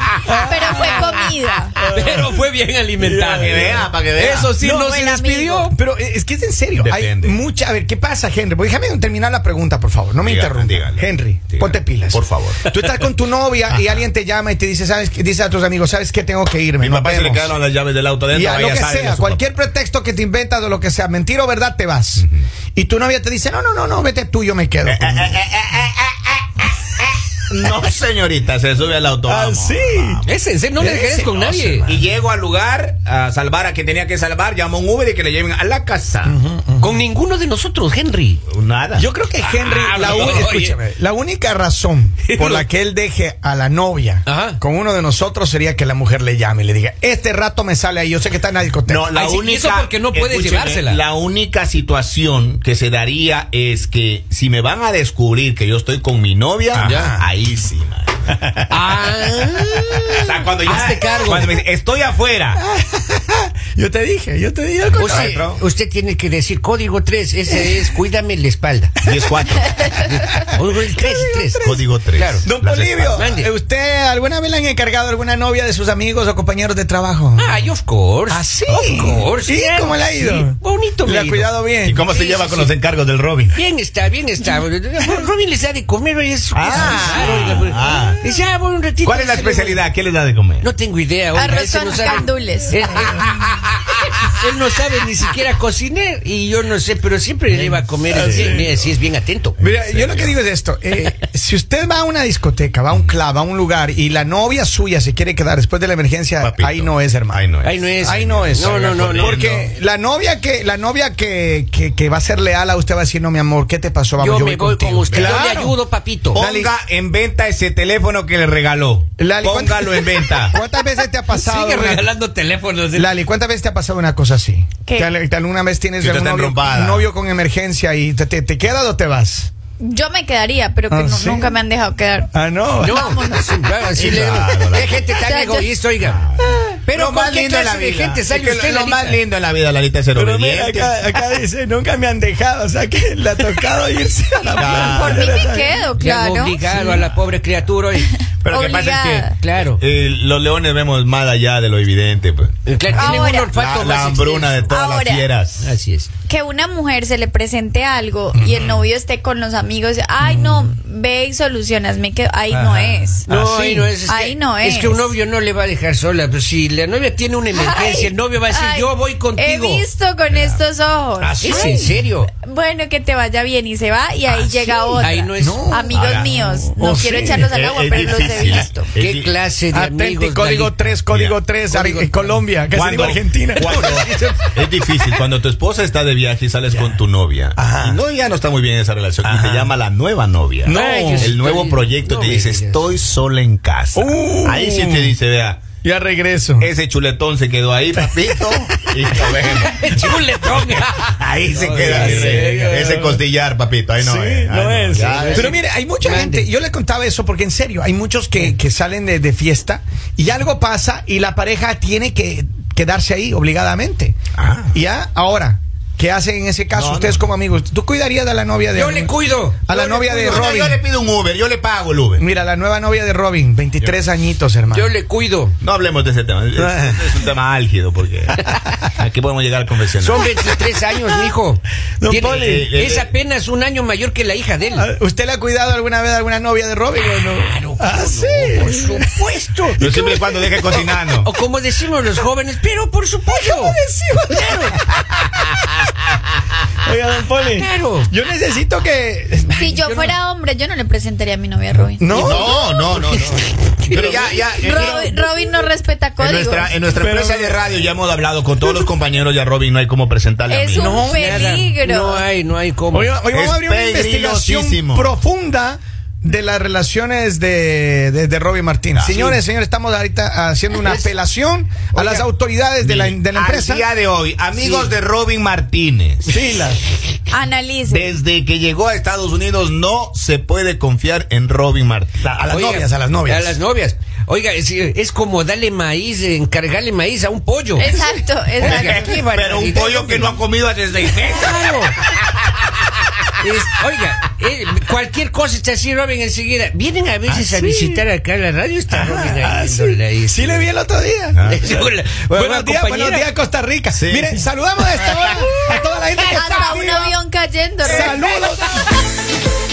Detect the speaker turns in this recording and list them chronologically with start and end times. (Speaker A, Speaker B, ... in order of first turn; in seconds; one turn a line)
Speaker A: 0.2-2.4
Speaker B: 0.4-1.8
Speaker C: 1.9-5.7
Speaker A: 3.0-3.8
Speaker D: 3.4-4.6
Speaker A: 4.6-5.1
Speaker B: 4.8-5.7
Speaker A: 5.7-17.5
Speaker D: 6.8-7.4
Speaker D: 10.2-12.7
Speaker D: 16.8-19.4
Speaker A: 18.3-25.4
Speaker D: 22.2-22.5
Speaker D: 24.9-30.3
Speaker A: 29.3-30.2
Speaker C: 30.2-31.9
Speaker A: 30.8-32.0
Speaker D: 31.9-36.4
Speaker A: 36.2-37.0
Speaker C: 36.8-38.4
Speaker D: 38.5-39.1
Speaker A: 39.0-49.1
Speaker C: 39.4-40.8
Speaker D: 40.0-40.5
Speaker C: 42.2-42.6
Speaker C: 44.3-44.6
Speaker D: 48.9-58.3
Speaker C: 49.1-51.0
Speaker A: 56.7-57.2
Speaker C: 56.8-57.2
Speaker A: 58.4-58.7
Speaker C: 58.7-61.6
Speaker A: 59.6-60.2
Speaker D: 60.2-62.6
Speaker A: 62.6-65.4
Speaker D: 64.9-65.6
Speaker C: 64.9-69.0
Speaker A: 67.5-67.8
Speaker D: 69.0-69.7
Speaker A: 69.0-71.8
Speaker C: 69.9-72.5
Speaker D: 71.6-73.3
Speaker A: 72.4-77.7
Speaker C: 73.1-73.5
Speaker C: 77.4-81.5
Speaker A: 78.3-82.0
Speaker D: 81.8-83.6
Speaker C: 82.1-82.7
Speaker C: 83.5-89.8
Speaker D: 86.5-88.2
Speaker A: 86.7-87.5
Speaker D: 89.0-90.7
Speaker C: 90.6-99.6
Speaker B: 91.3-92.9
Speaker A: 97.5-98.7
Speaker D: 99.6-100.4
Speaker A: 99.6-107.4
Speaker D: 106.4-109.7
Speaker C: 107.6-109.4
Speaker A: 108.0-115.8
Speaker C: 114.2-116.4
Speaker D: 115.1-115.4
Speaker D: 116.3-120.5
Speaker A: 116.3-116.7
Speaker A: 119.2-122.1
Speaker C: 121.3-123.1
Speaker A: 122.9-129.5
Speaker D: 126.0-127.1
Speaker B: 129.8-133.6
Speaker A: 130.9-131.6
Speaker A: 132.3-133.4
Speaker C: 132.8-136.2
Speaker D: 133.9-135.1
Speaker B: 135.2-135.7
Speaker D: 136.0-141.0
Speaker C: 136.9-139.2
Speaker A: 140.2-145.8
Speaker D: 144.5-145.4
Speaker B: 144.8-146.8
Speaker C: 146.0-148.2
Speaker D: 148.4-152.6
Speaker B: 148.5-149.4
Speaker C: 149.4-149.8
Speaker C: 152.7-154.7
Speaker B: 152.9-153.6
Speaker D: 153.5-155.7
Speaker B: 154.7-155.3
Speaker C: 155.6-156.1
Speaker B: 156.3-163.3
Speaker A: 158.4-158.7
Speaker A: 160.3-160.6
Speaker C: 162.6-169.9
Speaker A: 163.3-163.9
Speaker B: 164.0-165.2
Speaker B: 167.5-171.7
Speaker A: 171.2-172.0
Speaker C: 171.4-172.3
Speaker B: 172.3-178.9
Speaker C: 174.3-175.7
Speaker A: 175.4-177.5
Speaker D: 175.9-176.5
Speaker D: 177.3-179.3
Speaker C: 179.0-180.9
Speaker A: 179.7-183.9
Speaker D: 181.1-181.4
Speaker C: 181.7-182.4
Speaker D: 182.7-195.8
Speaker C: 183.6-184.6
Speaker A: 186.7-187.0
Speaker A: 187.6-188.0
Speaker A: 189.2-189.7
Speaker A: 190.6-191.3
Speaker C: 190.7-192.9
Speaker A: 193.9-195.2
Speaker A: 195.8-196.7
Speaker D: 196.6-199.9
Speaker A: 198.0-198.5
Speaker C: 199.3-202.9
Speaker A: 201.2-203.2
Speaker D: 201.5-205.6
Speaker A: 204.0-214.2
Speaker C: 205.0-206.5
Speaker D: 214.4-214.8
Speaker A: 214.7-219.1
Speaker D: 216.7-217.3
Speaker C: 218.7-219.6
Speaker A: 219.7-220.8
Speaker D: 219.7-222.2
Speaker A: 222.2-224.9
Speaker C: 224.7-225.6
Speaker D: 225.6-230.3
Speaker A: 226.6-227.1
Speaker C: 230.0-234.9
Speaker A: 232.0-232.7
Speaker D: 232.4-233.1
Speaker A: 234.8-239.2
Speaker C: 237.4-239.8
Speaker A: 239.8-240.7
Speaker D: 239.8-241.3
Speaker C: 240.7-243.8
Speaker A: 243.3-244.9
Speaker C: 244.3-244.7
Speaker A: 246.8-249.7
Speaker C: 247.4-248.1
Speaker B: 249.6-252.2
Speaker C: 249.6-250.2
Speaker A: 252.0-252.7
Speaker D: 252.2-255.2
Speaker C: 252.2-254.3
Speaker A: 253.9-255.2
Speaker B: 254.6-256.7
Speaker D: 256.2-261.0
Speaker A: 256.9-257.6
Speaker B: 260.5-262.2
Speaker A: 260.8-261.5
Speaker C: 260.8-263.1
Speaker A: 262.9-273.9
Speaker D: 263.3-265.1
Speaker D: 268.9-269.3
Speaker C: 270.8-271.1
Speaker D: 271.9-272.2
Speaker D: 272.8-276.3
Speaker C: 274.6-274.9
Speaker A: 276.3-276.8
Speaker B: 277.3-278.1
Speaker D: 277.9-282.2
Speaker A: 282.2-283.6
Speaker C: 282.5-288.0
Speaker B: 287.8-289.2
Speaker C: 288.6-290.4
Speaker D: 288.6-291.7
Speaker C: 291.2-292.0
Speaker C: 293.4-300.7
Speaker A: 297.3-298.0
Speaker A: 298.9-307.2
Speaker D: 301.4-301.6
Speaker C: 301.4-303.3
Speaker D: 303.9-304.4
Speaker D: 305.0-305.4
Speaker B: 306.3-308.2
Speaker A: 307.8-308.9
Speaker C: 307.9-308.8